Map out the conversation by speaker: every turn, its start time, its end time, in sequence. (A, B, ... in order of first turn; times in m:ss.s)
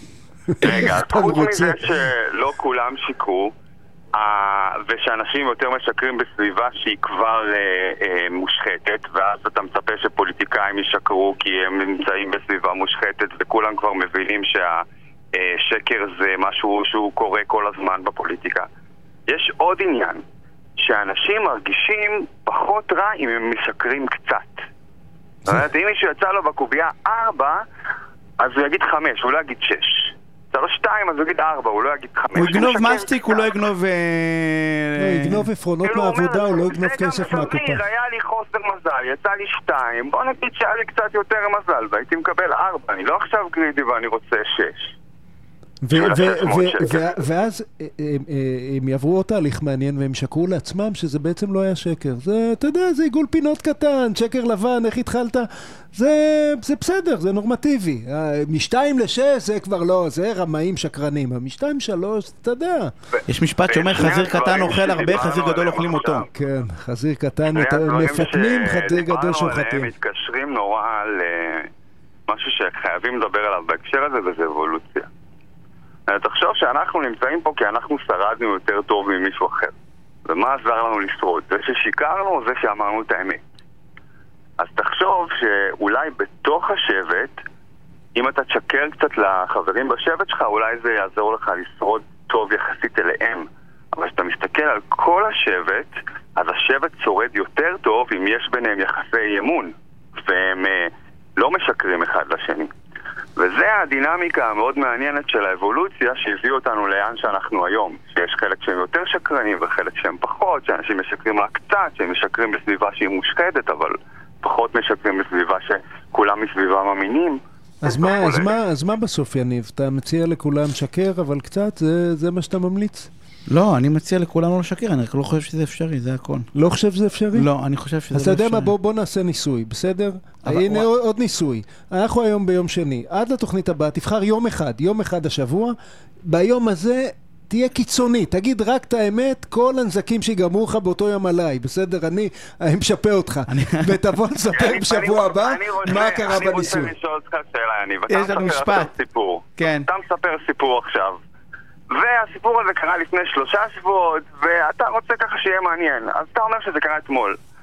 0:00.5-0:01.8 A
0:00.6-0:03.5 B
0:04.2-0:18.6 B
0:19.3-0:20.2 B
0:20.8-0:24.6 B
0:25.4-0:27.6 B
0:28.4-0:33.6 B
0:32.3-0:35.5 C
0:35.0-0:37.8 A
0:35.8-0:44.9 B
0:45.8-1:02.9 A
0:45.9-0:47.1 B
1:03.1-1:06.2 B
1:03.3-1:06.2 C
1:06.3-1:09.9 A
1:07.5-1:11.7 B
1:12.3-1:15.1 B
1:16.1-1:19.7 B
1:20.3-1:23.4 B
1:24.6-1:27.4 B
1:28.2-1:42.7 B
1:43.4-1:58.5 B
1:57.8-2:03.1 A
2:03.5-2:06.5 C
2:06.5-2:07.5 A
2:07.3-2:08.7 C
2:08.1-2:15.7 A
2:10.4-2:10.9 C
2:16.3-2:26.9 A
2:23.5-2:24.0 C
2:24.6-2:31.2 B
2:28.1-2:28.9 C
2:29.6-2:29.9 C
2:31.9-2:37.4 B